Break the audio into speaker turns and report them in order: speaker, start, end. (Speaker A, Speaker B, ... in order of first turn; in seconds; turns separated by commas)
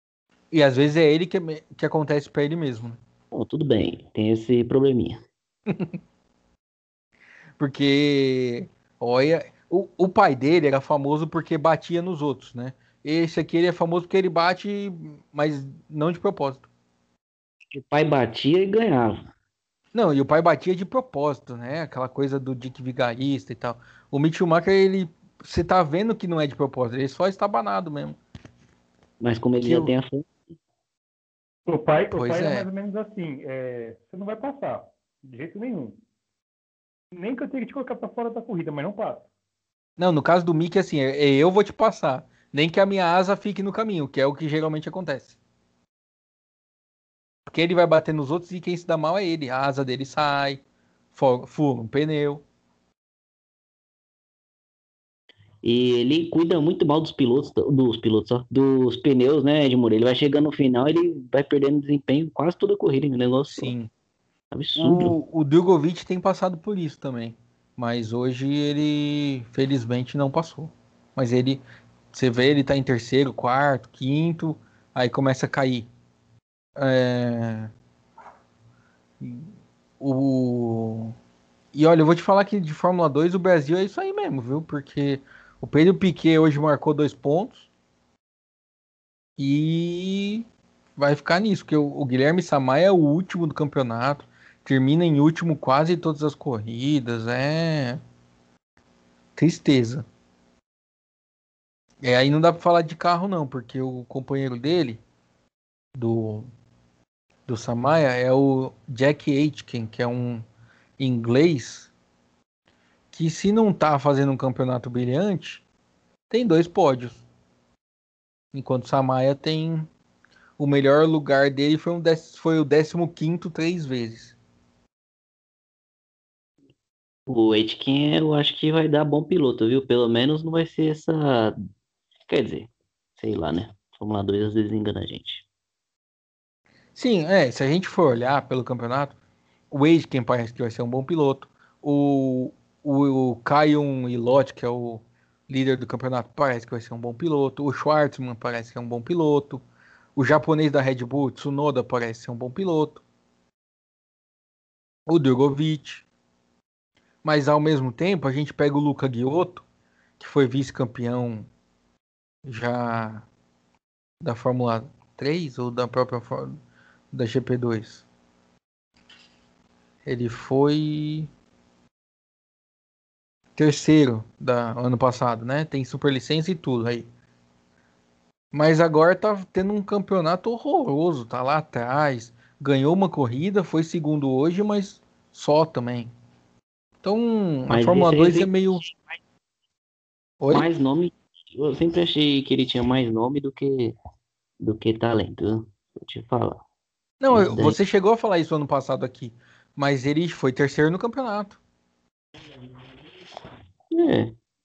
Speaker A: 0.5-3.0, Speaker B: 3.3-5.2, Speaker A: 7.6-16.7, Speaker B: 17.7-19.2, Speaker A: 19.9-28.2, Speaker B: 29.2-30.3, Speaker A: 29.6-29.9, Speaker C: 31.7-36.0, Speaker A: 32.1-32.7, Speaker C: 37.1-39.3, Speaker A: 40.0-45.4, Speaker A: 47.5-50.6, Speaker A: 51.1-52.5, Speaker B: 55.6-63.7, Speaker A: 63.5-63.9, Speaker B: 64.5-65.2, Speaker A: 64.8-71.6, Speaker A: 72.1-75.9, Speaker A: 76.8-77.7, Speaker A: 79.2-79.5, Speaker A: 80.0-81.1, Speaker A: 81.7-87.7, Speaker A: 89.4-90.5, Speaker A: 91.0-98.0, Speaker A: 99.3-100.1, Speaker A: 102.0-105.0, Speaker A: 106.0-106.5, Speaker A: 107.5-110.5, Speaker A: 111.0-111.9, Speaker A: 113.1-115.6, Speaker A: 116.3-117.2, Speaker A: 118.5-119.9, Speaker A: 120.6-124.4, Speaker B: 127.3-131.6, Speaker B: 132.3-135.5, Speaker A: 136.9-139.2, Speaker A: 139.7-149.6, Speaker A: 150.2-153.0, Speaker A: 155.1-156.1, Speaker A: 157.2-159.6, Speaker A: 160.2-161.5, Speaker A: 162.4-163.3, Speaker A: 164.2-166.6, Speaker A: 167.1-168.1, Speaker A: 170.1-171.3, Speaker A: 173.6-177.1, Speaker A: 178.5-186.1, Speaker A: 187.0-188.8, Speaker B: 187.7-189.2, Speaker A: 190.4-190.7, Speaker B: 190.5-193.9, Speaker B: 194.6-196.6, Speaker A: 197.2-201.6, Speaker B: 197.3-197.8, Speaker B: 203.9-204.3